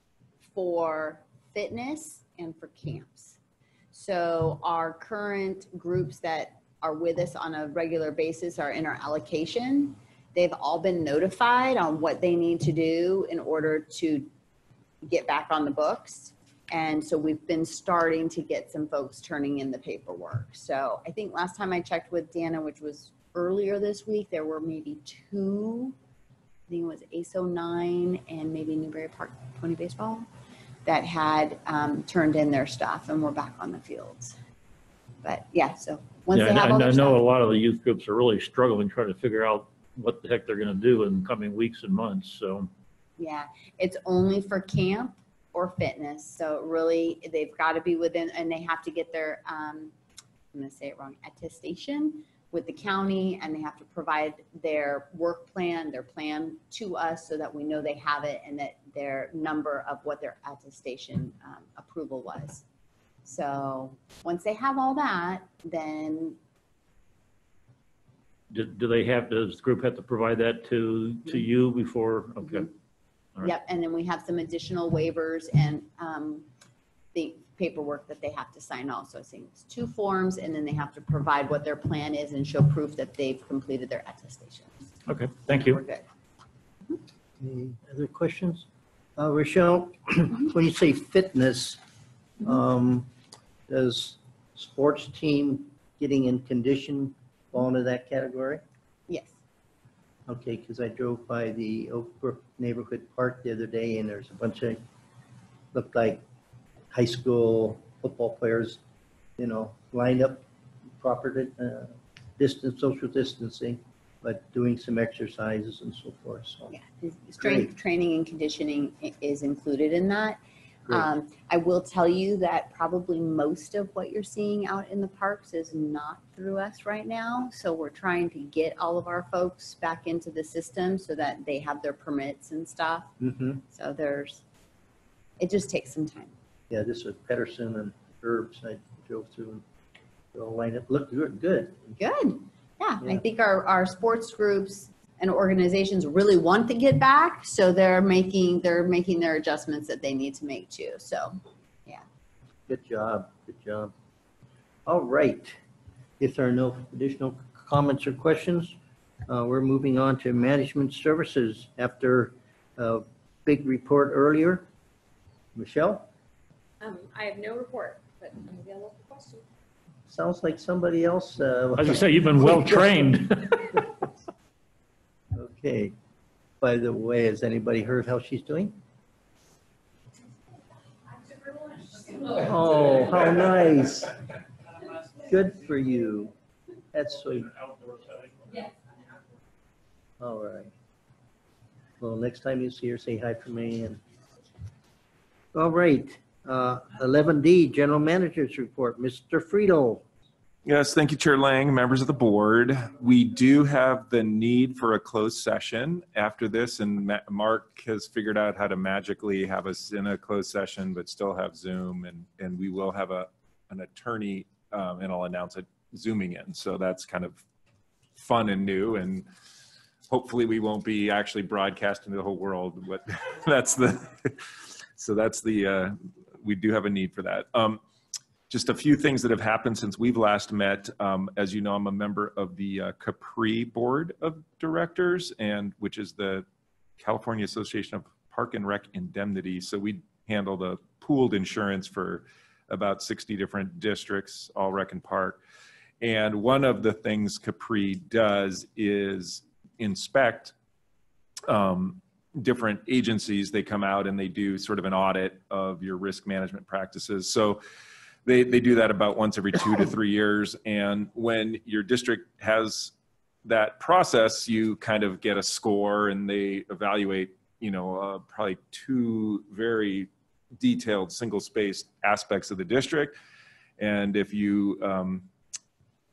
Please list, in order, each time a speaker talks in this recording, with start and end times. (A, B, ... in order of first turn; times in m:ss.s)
0:00.4-0:03.4 A
0:03.9-0:14.3 A
0:15.0-0:25.9 A
0:26.7-0:30.3 A
0:30.8-0:34.4 A
0:35.2-0:37.2 A
0:36.3-0:42.7 B
0:43.2-0:49.9 A
0:50.5-1:02.6 A
1:03.2-1:06.4 A
1:08.5-1:12.7 B
1:12.4-1:12.7 A
1:13.4-1:16.4 A
1:17.1-1:24.7 A
1:25.1-1:25.8 B
1:25.4-1:26.0 A
1:27.4-1:28.6 C
1:29.2-1:31.8 C
1:32.4-1:33.1 C
1:33.7-1:38.6 C
1:39.1-1:39.3 A
1:40.3-1:44.8 C
1:45.7-1:46.2 C
1:46.9-1:48.8 C
1:49.4-1:50.4 C
1:51.0-1:56.7 C
1:56.7-2:13.2 A
1:57.4-1:57.7 C
2:13.2-2:13.6 C
2:13.7-2:14.4 A
2:15.4-2:16.3 A
2:16.7-2:19.6 C
2:20.3-2:21.9 C
2:22.0-2:32.0 A
2:32.7-2:33.9 C
2:34.8-2:35.6 C
2:36.2-2:38.8 C
2:39.3-2:44.7 C
2:45.6-2:46.1 C
2:46.8-2:49.4 D
2:50.1-2:53.2 C
2:51.8-2:53.8 B
2:55.3-2:55.9 C
2:56.6-2:58.8 C
3:01.2-3:02.3 D
3:02.3-3:04.2 C
3:05.1-3:06.3 C
3:06.9-3:07.5 C
3:07.3-3:08.7 B
3:10.2-3:10.7 C
3:12.0-3:14.0 C
3:15.5-3:20.1 C
3:20.6-3:37.4 E
3:38.2-3:39.3 E
3:40.1-3:47.8 E
3:48.5-3:56.4 E
3:57.0-4:05.4 E
4:06.0-4:10.5 E
4:11.4-4:17.6 E
4:18.2-4:33.2 E
4:33.8-4:35.3 E